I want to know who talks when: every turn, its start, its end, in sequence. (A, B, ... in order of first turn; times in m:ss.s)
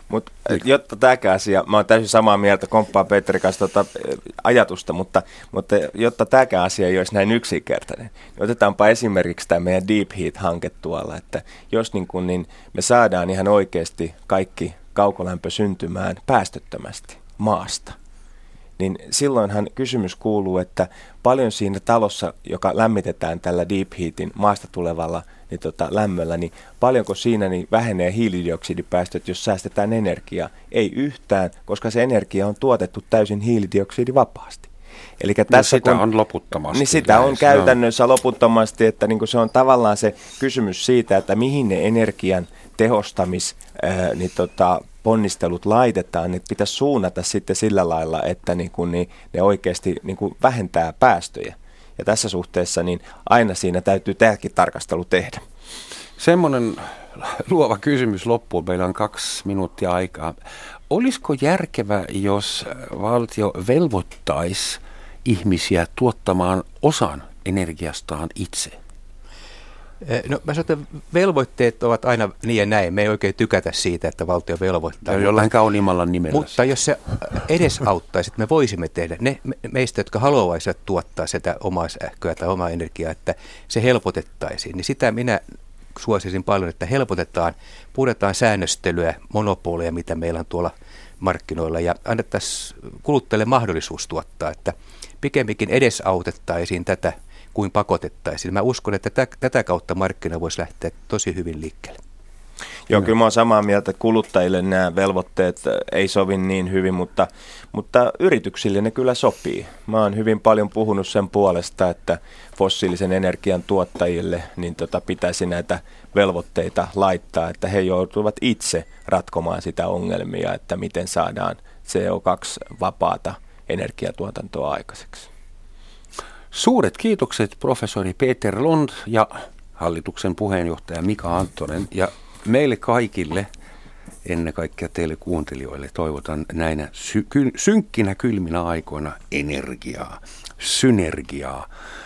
0:00.1-0:18.0 A
0:18.8-0:34.7 A
0:35.2-0:36.0 A
0:35.5-0:37.7 B
0:36.7-0:55.4 A
0:56.2-1:00.4 B
1:00.9-1:08.8 B
1:10.0-1:15.5 C
1:15.1-1:16.6 B
1:16.3-1:25.4 C
1:25.9-1:42.0 C
1:42.9-2:05.3 A
2:06.5-2:13.5 B
2:14.2-2:21.7 B